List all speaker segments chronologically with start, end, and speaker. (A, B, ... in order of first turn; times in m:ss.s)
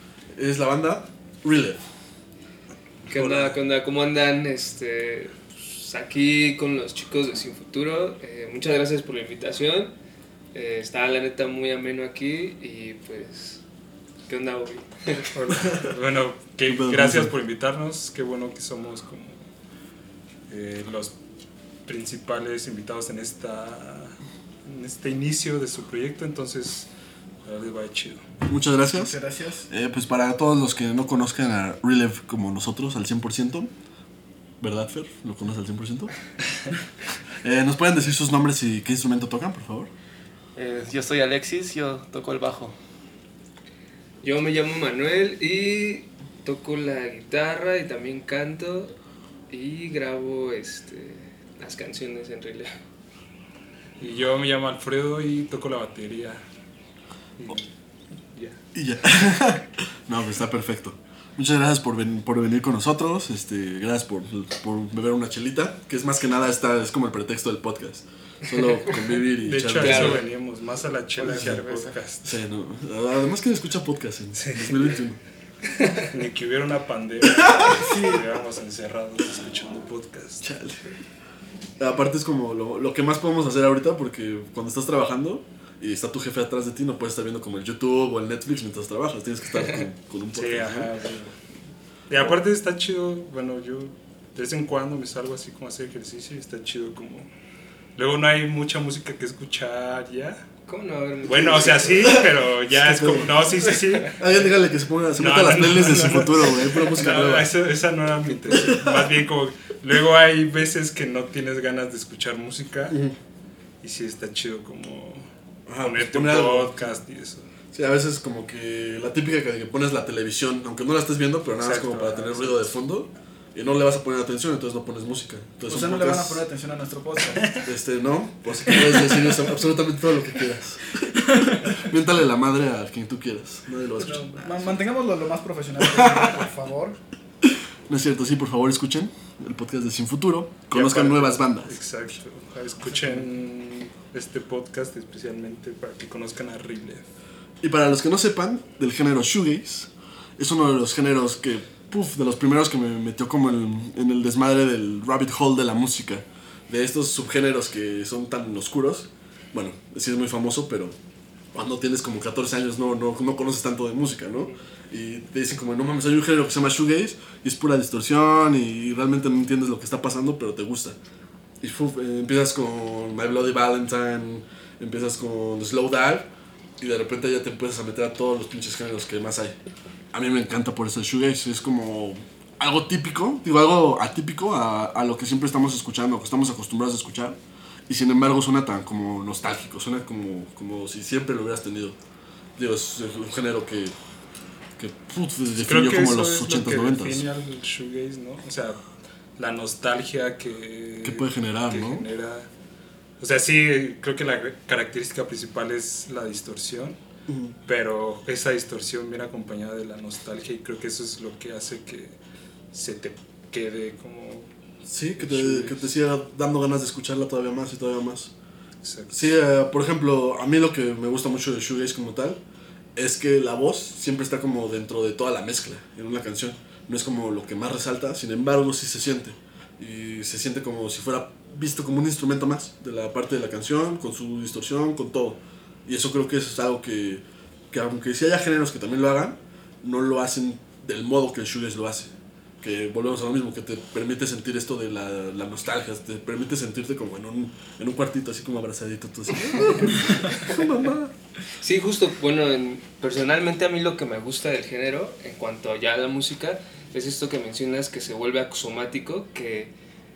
0:00.4-0:01.8 A
0:03.1-0:09.9 B
0:10.5-0:13.6 B
0:14.3-0:15.3 B
0:15.3-0:19.4 C
0:16.7-0:17.3 A
0:20.5-0:21.1 C
0:21.9-0:26.9 C
0:27.4-0:28.3 C
0:28.4-0:33.7 A
0:28.9-0:29.7 D
0:34.6-0:36.1 A
0:37.4-0:39.9 A
0:40.6-0:42.8 E
0:44.2-0:49.0 B
0:49.5-0:52.8 B
0:54.0-0:56.4 C
0:57.4-0:57.7 C
0:58.3-0:58.6 C
0:58.7-1:10.2 A
1:09.4-1:12.4 C
1:09.8-1:10.2 B
1:11.2-1:11.9 E
1:11.2-1:11.6 A
1:12.2-1:15.2 A
1:14.3-1:15.0 C
1:16.1-1:20.5 C
1:17.3-1:17.8 A
1:17.7-1:18.3 D
1:20.4-1:21.0 A
1:21.8-1:30.9 A
1:30.3-1:31.3 C
1:32.1-1:37.3 C
1:38.0-1:40.4 C
1:40.7-1:42.0 B
1:41.2-1:44.3 C
1:41.4-1:47.5 A
1:45.2-1:53.0 C
1:48.5-1:49.1 A
1:52.9-1:53.2 A
1:53.8-1:57.5 C
1:55.7-1:56.8 A
1:57.7-2:06.4 A
2:01.6-2:02.7 C
2:05.7-2:07.6 D
2:07.6-2:14.7 A
2:11.0-2:11.8 D
2:14.0-2:17.0 D
2:15.8-2:16.4 A
2:17.4-2:21.8 A
2:20.7-2:27.0 C
2:27.6-2:41.0 A
2:41.5-2:51.0 A
2:51.6-2:59.6 A
3:00.1-3:12.0 A
3:12.6-3:14.0 A
3:14.8-3:17.2 A
3:15.6-3:18.8 C
3:19.4-3:22.5 C
3:21.0-3:22.0 A
3:23.2-3:27.0 C
3:27.3-3:27.6 A
3:27.6-3:32.2 C
3:32.7-3:34.5 C
3:34.8-3:38.3 A
3:35.2-3:35.9 C
3:38.8-3:39.3 C
3:39.1-3:42.4 A
3:43.0-4:11.1 A
4:09.6-4:09.9 B
4:11.6-4:19.7 B